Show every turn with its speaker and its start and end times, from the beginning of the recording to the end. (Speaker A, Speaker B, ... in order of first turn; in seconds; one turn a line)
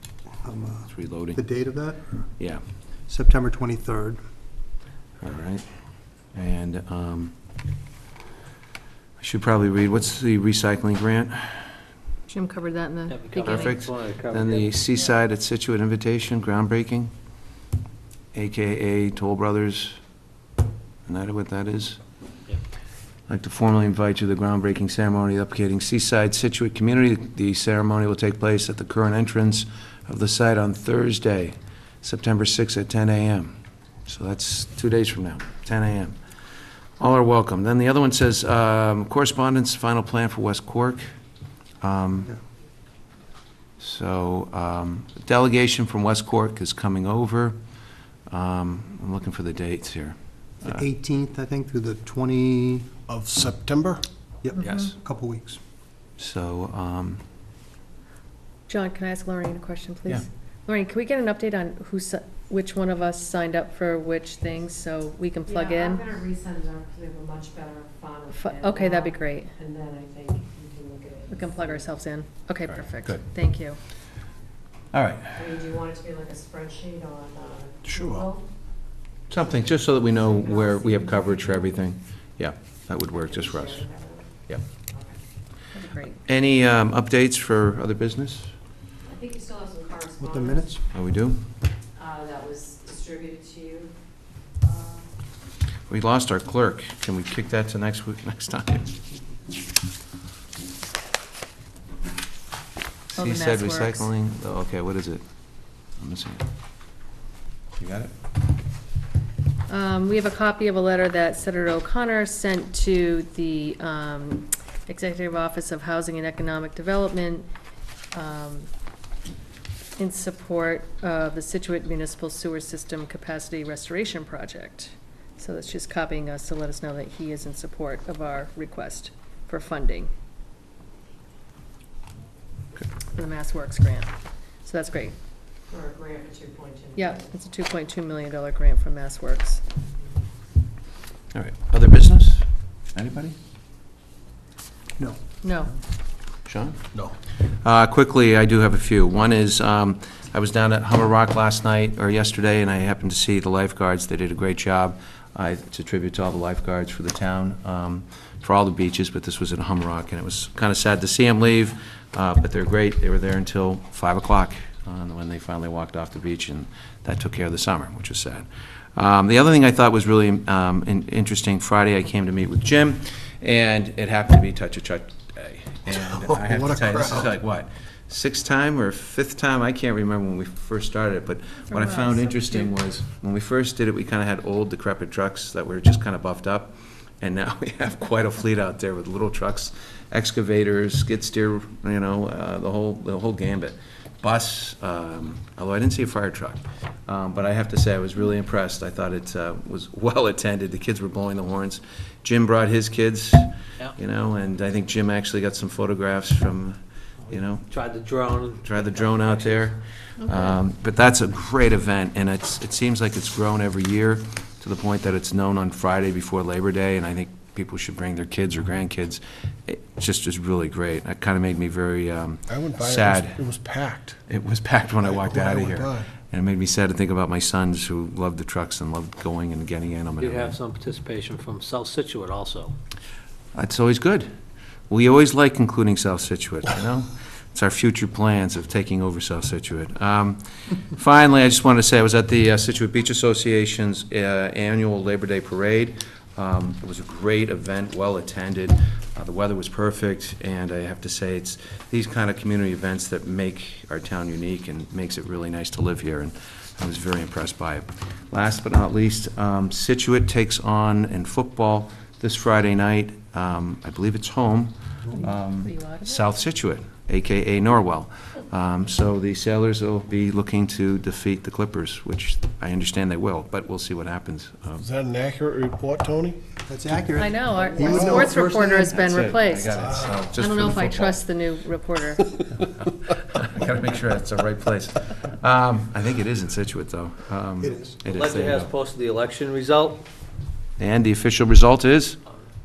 Speaker A: 0.4-2.2
Speaker B: 0.9-1.4
Speaker A: 3.1-4.2
Speaker B: 5.2-5.6
Speaker B: 6.3-7.3
Speaker B: 9.2-11.7
Speaker C: 12.3-13.8
Speaker D: 13.1-14.8
Speaker B: 13.4-17.1
Speaker B: 18.3-20.0
Speaker B: 21.1-22.0
Speaker B: 23.3-33.5
Speaker B: 34.0-36.1
Speaker B: 37.0-41.0
Speaker B: 41.8-42.3
Speaker B: 43.8-47.6
Speaker B: 48.3-50.8
Speaker A: 50.6-52.9
Speaker E: 53.1-54.0
Speaker A: 54.4-55.6
Speaker B: 54.6-55.0
Speaker B: 56.2-57.2
Speaker C: 58.7-66.1
Speaker F: 66.0-68.9
Speaker C: 68.3-69.5
Speaker F: 69.6-71.2
Speaker C: 71.3-73.8
Speaker B: 72.7-73.2
Speaker B: 74.9-75.6
Speaker F: 75.5-77.9
Speaker E: 77.9-78.4
Speaker B: 79.3-83.9
Speaker F: 83.8-84.2
Speaker C: 85.7-86.2
Speaker B: 86.2-88.5
Speaker F: 89.1-90.1
Speaker A: 90.2-90.8
Speaker B: 90.9-91.4
Speaker F: 92.0-93.9
Speaker B: 95.9-98.9
Speaker C: 103.1-104.1
Speaker B: 103.1-105.2
Speaker B: 106.0-106.4
Speaker B: 107.8-108.1
Speaker C: 109.7-117.5
Speaker C: 118.1-118.7
Speaker C: 120.0-130.1
Speaker C: 133.1-134.1
Speaker C: 134.6-135.2
Speaker F: 135.7-136.9
Speaker C: 136.9-139.6
Speaker B: 141.3-143.3
Speaker C: 145.4-145.7
Speaker B: 146.4-146.8
Speaker B: 147.6-207.7
Speaker E: 175.9-177.3
Speaker C: 181.7-182.7
Speaker D: 207.7-209.7
Speaker B: 208.6-223.4
Speaker E: 222.5-224.2
Speaker B: 224.3-230.6
Speaker E: 225.0-226.1
Speaker D: 230.2-232.8
Speaker B: 233.5-234.3
Speaker B: 234.9-274.8
Speaker C: 265.1-266.3
Speaker E: 274.8-276.4
Speaker A: 276.6-279.0
Speaker C: 277.2-282.4
Speaker E: 277.8-278.3
Speaker B: 278.9-281.2
Speaker E: 279.7-280.2
Speaker B: 282.6-288.7
Speaker A: 287.6-287.9
Speaker D: 288.1-290.0
Speaker B: 290.8-292.2